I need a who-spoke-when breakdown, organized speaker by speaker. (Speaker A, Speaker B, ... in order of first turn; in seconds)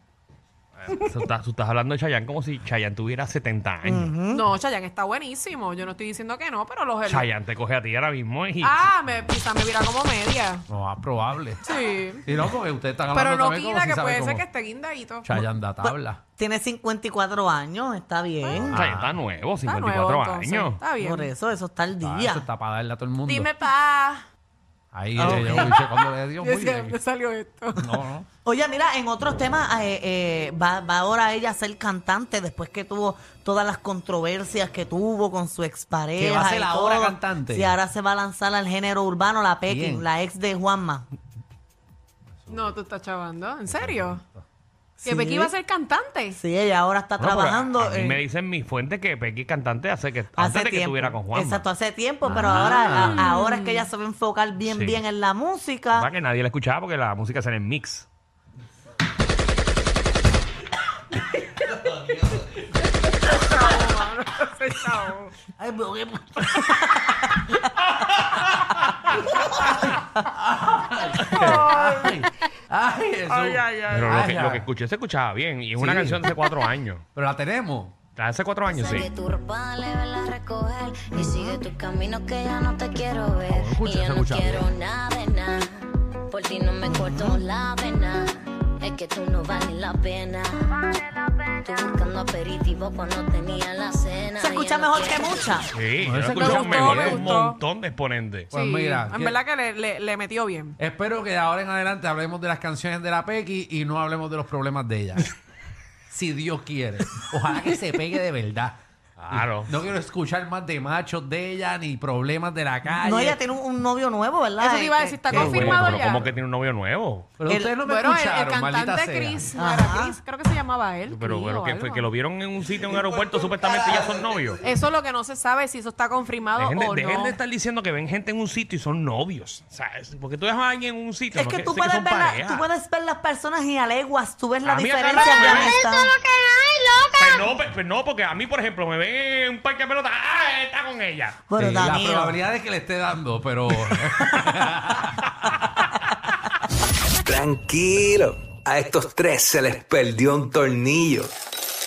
Speaker A: 0.8-4.1, 7.0-8.9, 18.7-20.8, 47.2-51.6, 54.6-55.0, 55.9-58.1, 68.3-68.8, 71.2-71.7, 73.8-77.0, 78.2-79.1, 95.7-98.5, 109.2-109.7, 115.3-117.3, 121.1-124.6, 126.6-132.7, 134.6-135.8, 137.2-141.4
Speaker B: 3.8-4.5, 15.3-18.8, 21.0-22.4, 25.2-25.8, 27.9-41.1, 45.0-45.5, 46.3-48.2, 50.4-56.1, 65.6-67.5, 81.2-81.5, 86.8-87.4, 94.4-95.7, 112.9-116.2, 117.5-117.8, 119.5-120.2, 131.3-136.2, 141.5-142.4
Speaker C: 4.3-7.2, 8.6-10.6, 11.6-12.2, 13.1-15.3, 19.6-21.3, 23.3-24.2, 25.6-27.8, 42.5-44.2, 45.0-46.4, 53.0-53.7, 63.4-65.3, 96.7-97.6, 98.6-100.8, 114.8-116.2, 117.9-122.0, 124.6-127.3
Speaker D: 10.7-11.7, 12.2-14.4, 15.2-16.2, 18.5-19.1, 22.0-23.5, 24.9-27.0, 27.8-28.2, 36.2-37.8, 39.7-40.1, 42.4-42.8, 43.7-44.4, 52.2-53.2, 69.8-74.7, 75.8-76.3, 77.1-78.0, 83.5-84.7, 96.0-97.3, 98.5-99.4, 100.8-105.3, 106.1-108.8, 109.3-113.4, 117.4-119.5, 141.6-145.6
Speaker E: 78.7-85.7, 86.3-90.8, 91.6-95.5, 135.2-137.4
Speaker F: 147.2-151.3